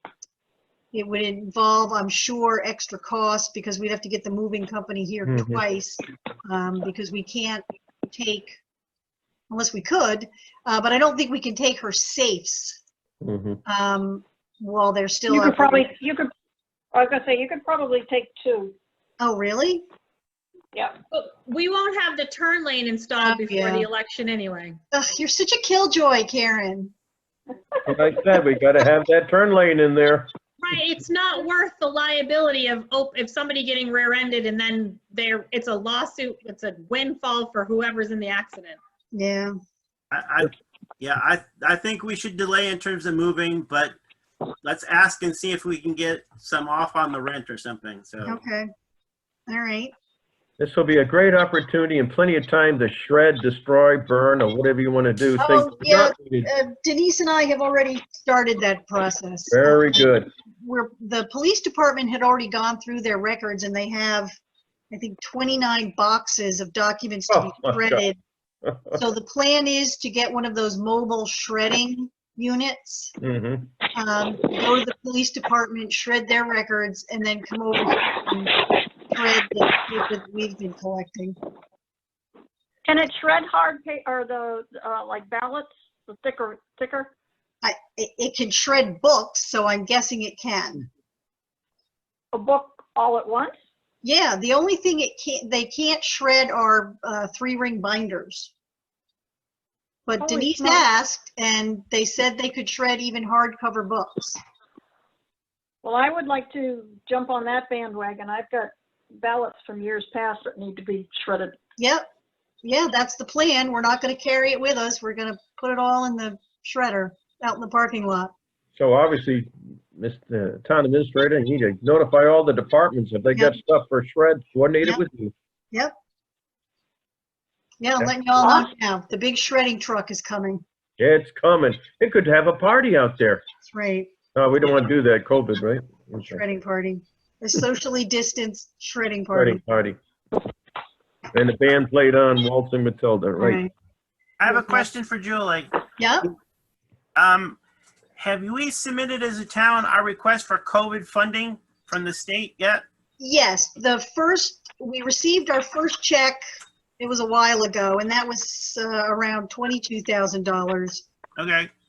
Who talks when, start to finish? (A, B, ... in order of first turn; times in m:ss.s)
0:00.9-0:08.6 A
0:05.3-0:05.6 B
0:09.5-0:12.8 A
0:13.2-0:13.6 B
0:13.7-0:15.9 A
0:15.3-0:16.3 C
0:16.9-0:18.8 C
0:19.2-0:19.8 A
0:20.7-0:21.0 C
0:21.1-0:24.8 D
0:23.2-0:23.9 A
0:24.9-0:26.9 A
0:27.9-0:30.3 B
0:30.6-0:38.8 D
0:39.1-0:39.5 A
0:40.1-0:44.0 E
0:44.6-0:48.4 E
0:48.2-0:48.7 A
0:49.5-0:49.9 A
0:50.6-0:56.5 B
0:55.4-1:04.3 A
0:59.5-1:00.3 B
1:04.9-1:08.2 A
1:07.3-1:08.0 B
1:08.6-1:09.0 B
1:08.9-1:13.1 A
1:13.2-1:13.7 B
1:13.9-1:18.6 A
1:19.1-1:21.4 A
1:22.9-1:27.1 C
1:27.6-1:30.9 A
1:32.3-1:33.6 C
1:34.0-1:38.5 A
1:40.1-1:44.4 A
1:40.2-1:40.8 C
1:45.8-1:51.6 C
1:51.8-1:52.1 A
1:52.6-1:58.3 A
1:58.8-2:05.3 B
2:07.8-2:10.6 A
2:08.4-2:08.7 C
2:11.0-2:13.4 B
2:13.7-2:14.1 A
2:14.4-2:16.4 B
2:16.2-2:19.6 A
2:19.3-2:20.0 B
2:21.3-2:23.6 B
2:23.4-2:23.7 A
2:24.4-2:25.7 E
2:24.5-2:24.8 A
2:26.0-2:26.3 A
2:27.2-2:27.6 E
2:28.2-2:32.8 E
2:33.2-2:36.4 A
2:37.0-2:41.0 A
2:41.4-2:41.7 E